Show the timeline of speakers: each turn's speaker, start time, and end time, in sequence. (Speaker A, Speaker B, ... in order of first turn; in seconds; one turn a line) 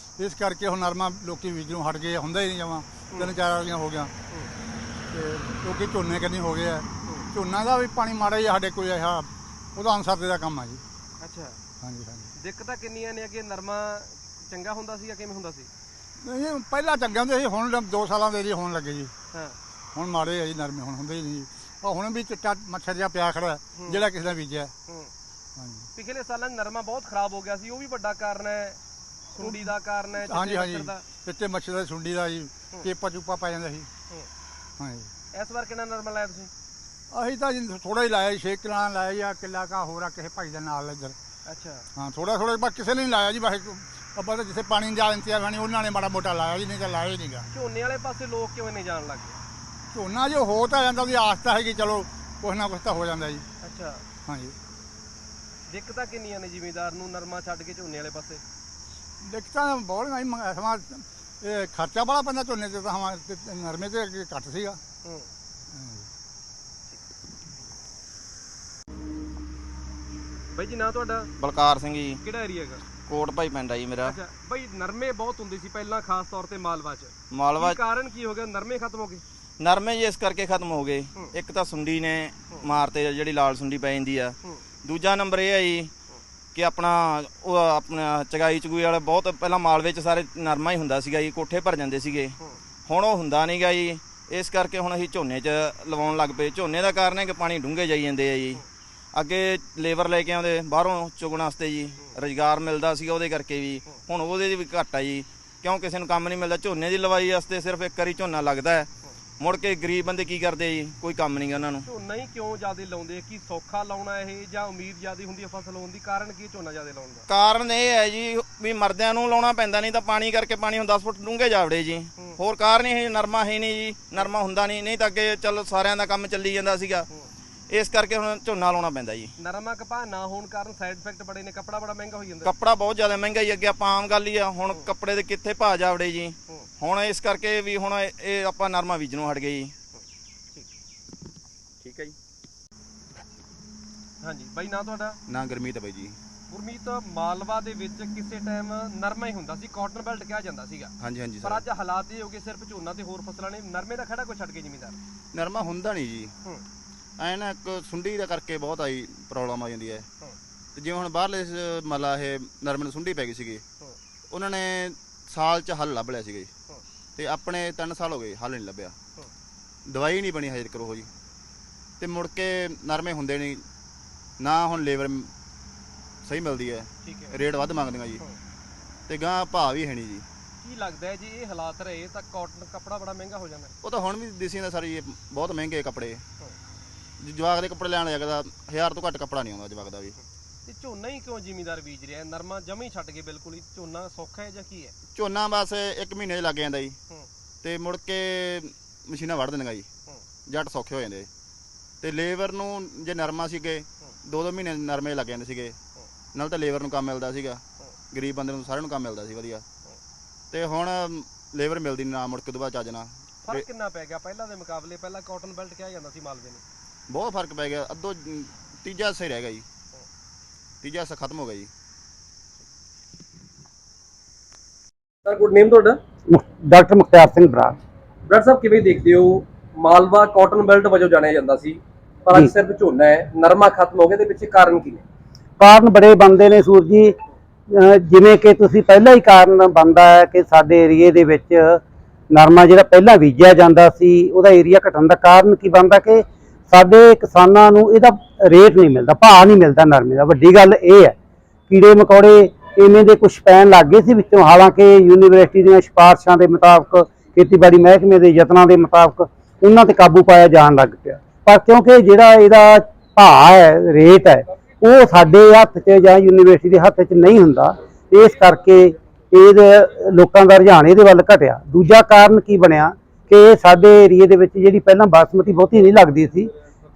Speaker A: 0.2-4.1
Speaker B: 3.1-3.4
Speaker A: 5.1-10.8
Speaker B: 11.2-11.6
Speaker A: 11.8-12.3
Speaker B: 12.4-15.7
Speaker A: 16.2-19.1
Speaker A: 19.9-24.7
Speaker B: 23.7-24.1
Speaker A: 25.6-25.9
Speaker B: 25.9-28.8
Speaker B: 29.3-31.0
Speaker A: 29.4-33.9
Speaker A: 34.8-35.1
Speaker B: 35.3-36.5
Speaker A: 37.1-41.2
Speaker B: 41.5-41.9
Speaker A: 42.0-47.5
Speaker B: 47.5-49.4
Speaker A: 49.9-53.5
Speaker B: 53.6-54.0
Speaker A: 54.3-54.5
Speaker B: 55.7-58.4
Speaker A: 59.2-64.8
Speaker B: 65.0-65.3
Speaker A: 65.7-66.1
Speaker B: 70.5-71.3
Speaker C: 71.4-72.2
Speaker B: 72.2-72.8
Speaker C: 73.0-74.1
Speaker B: 74.0-79.2
Speaker C: 77.3-77.8
Speaker C: 79.6-85.9
Speaker C: 86.5-98.6
Speaker C: 99.1-111.8
Speaker B: 111.8-117.2
Speaker C: 117.3-127.0
Speaker C: 127.7-129.3
Speaker B: 129.4-132.6
Speaker C: 132.4-139.7
Speaker B: 134.7-134.9
Speaker B: 139.9-140.7
Speaker C: 141.8-142.1
Speaker B: 144.2-145.2
Speaker D: 145.3-146.2
Speaker B: 146.5-150.9
Speaker D: 151.0-151.7
Speaker B: 151.4-155.0
Speaker D: 155.3-156.3
Speaker D: 157.2-160.1
Speaker D: 160.8-163.6
Speaker D: 164.3-166.5
Speaker D: 167.2-168.9
Speaker D: 169.9-171.1
Speaker D: 172.0-173.6
Speaker D: 174.4-175.3
Speaker D: 176.2-178.2
Speaker B: 177.0-178.4
Speaker D: 179.1-180.2
Speaker B: 180.6-183.7
Speaker D: 183.8-186.2
Speaker D: 187.2-190.2
Speaker B: 190.7-194.9
Speaker D: 195.1-196.9
Speaker D: 197.6-199.9
Speaker D: 200.5-201.3
Speaker D: 202.0-205.8
Speaker D: 206.3-209.6
Speaker D: 210.5-213.7
Speaker B: 213.4-216.6
Speaker D: 217.1-219.6
Speaker D: 220.8-221.7
Speaker B: 225.2-226.0
Speaker E: 226.3-227.8
Speaker B: 228.3-235.0
Speaker E: 235.6-237.1
Speaker E: 237.7-241.8
Speaker E: 242.3-251.1
Speaker E: 251.7-276.5